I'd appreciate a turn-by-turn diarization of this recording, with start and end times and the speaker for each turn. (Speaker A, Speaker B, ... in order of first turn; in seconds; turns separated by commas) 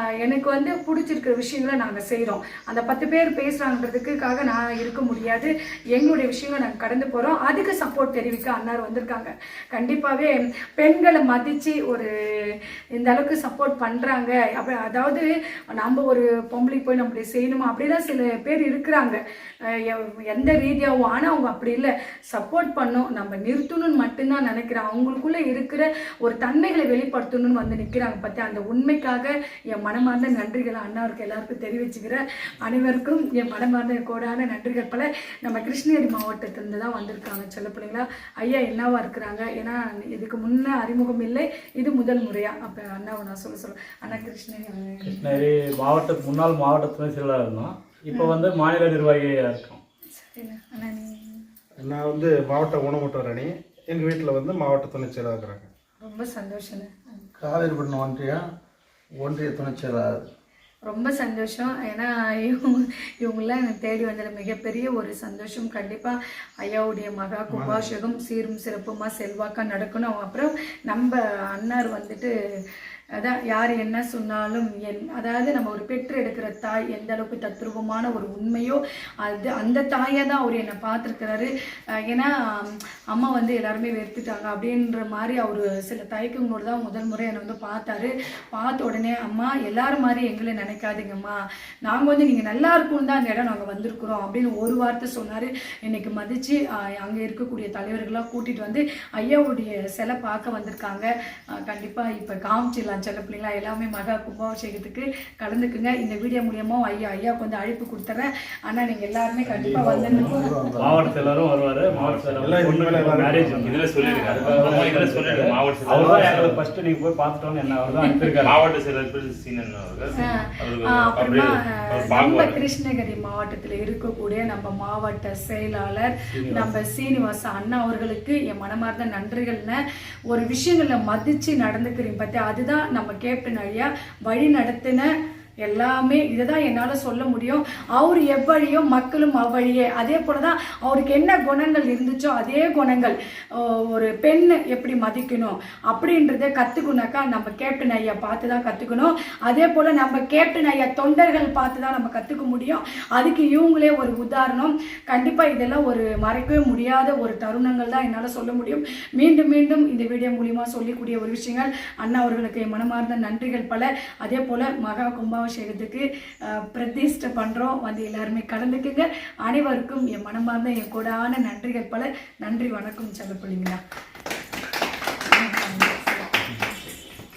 Speaker A: 0.2-45.4, Speaker B: 45.1-49.8, Speaker A: 48.1-48.5, Speaker A: 50.2-51.4, Speaker C: 51.8-55.7, Speaker A: 56.0-57.3, Speaker D: 57.4-58.5, Speaker D: 59.2-60.2, Speaker A: 60.9-72.3, Speaker D: 67.5-67.9, Speaker A: 73.2-81.5, Speaker A: 82.1-101.1, Speaker A: 101.7-111.3, Speaker D: 109.5-111.1, Speaker B: 109.8-118.6, Speaker C: 112.4-113.7, Speaker E: 113.6-116.5, Speaker A: 114.0-114.7, Speaker E: 118.4-120.1, Speaker A: 120.2-129.8, Speaker E: 120.6-121.4, Speaker E: 122.0-122.4, Speaker B: 126.4-126.7, Speaker A: 130.3-135.1, Speaker A: 135.7-173.8, Speaker A: 175.3-176.5